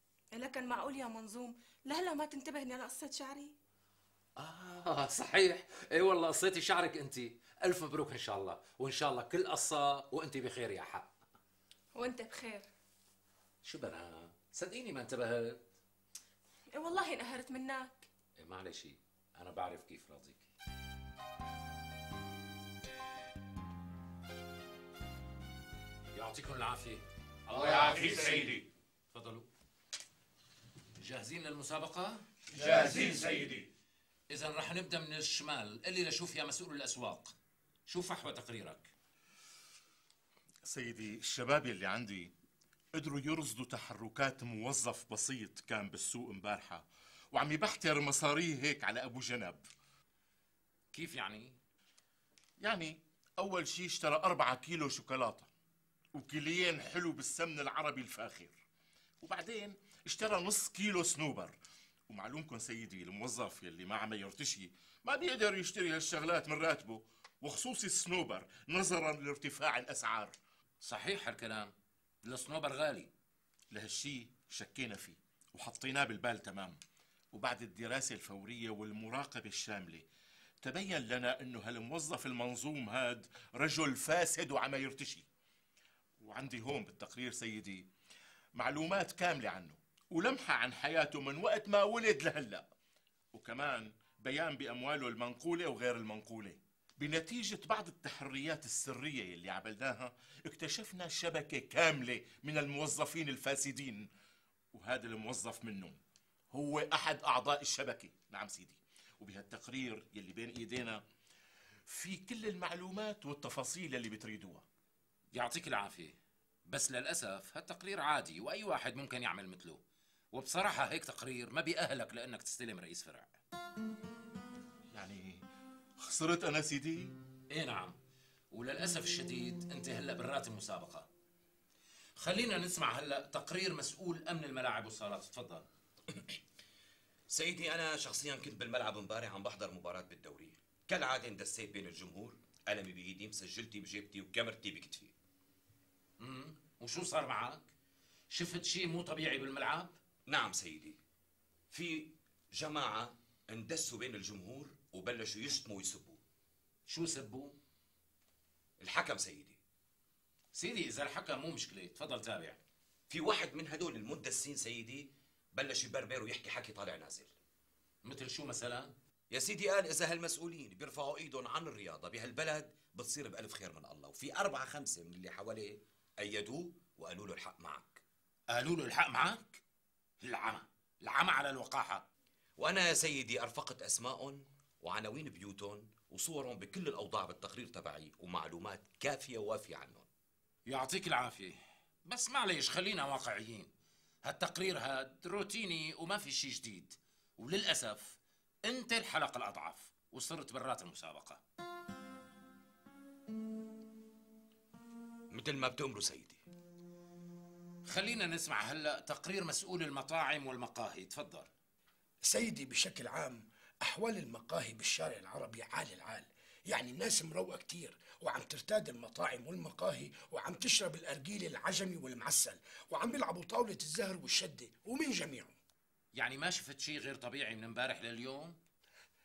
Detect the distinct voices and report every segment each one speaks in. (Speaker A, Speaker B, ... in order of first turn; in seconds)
Speaker A: 0.3-3.5, 11.9-12.7, 16.7-18.1
Speaker B: 4.4-11.1, 13.6-15.6, 18.4-20.5, 26.1-28.5, 29.1-29.5, 31.0-32.2, 34.3-37.4, 37.9-38.9, 50.9-51.6, 70.8-71.7, 72.2-73.1, 115.3-119.8, 120.3-123.4, 127.5-128.0, 128.5-131.1, 132.2-135.7, 146.2-147.7, 148.3-149.9, 156.9-157.6, 160.6-162.6, 168.0-168.9, 178.5-179.6, 180.2-182.1, 190.7-193.7, 194.2-201.4, 207.9-211.5, 226.2-228.6
Speaker C: 32.8-33.1, 212.2-225.6
Speaker D: 40.7-42.3, 43.0-49.6, 52.6-55.5, 56.2-58.6, 59.2-61.6, 62.1-70.3, 73.7-76.8, 77.3-80.1, 80.6-85.3, 86.2-87.9, 88.6-92.7, 93.3-104.1, 104.7-106.0, 106.5-111.0, 111.9-114.7, 124.9-125.4, 126.0-127.1
Speaker E: 137.3-145.1, 150.3-151.0, 151.7-156.2, 158.8-159.6, 163.1-167.3, 169.3-178.0, 182.6-190.1, 205.3-206.4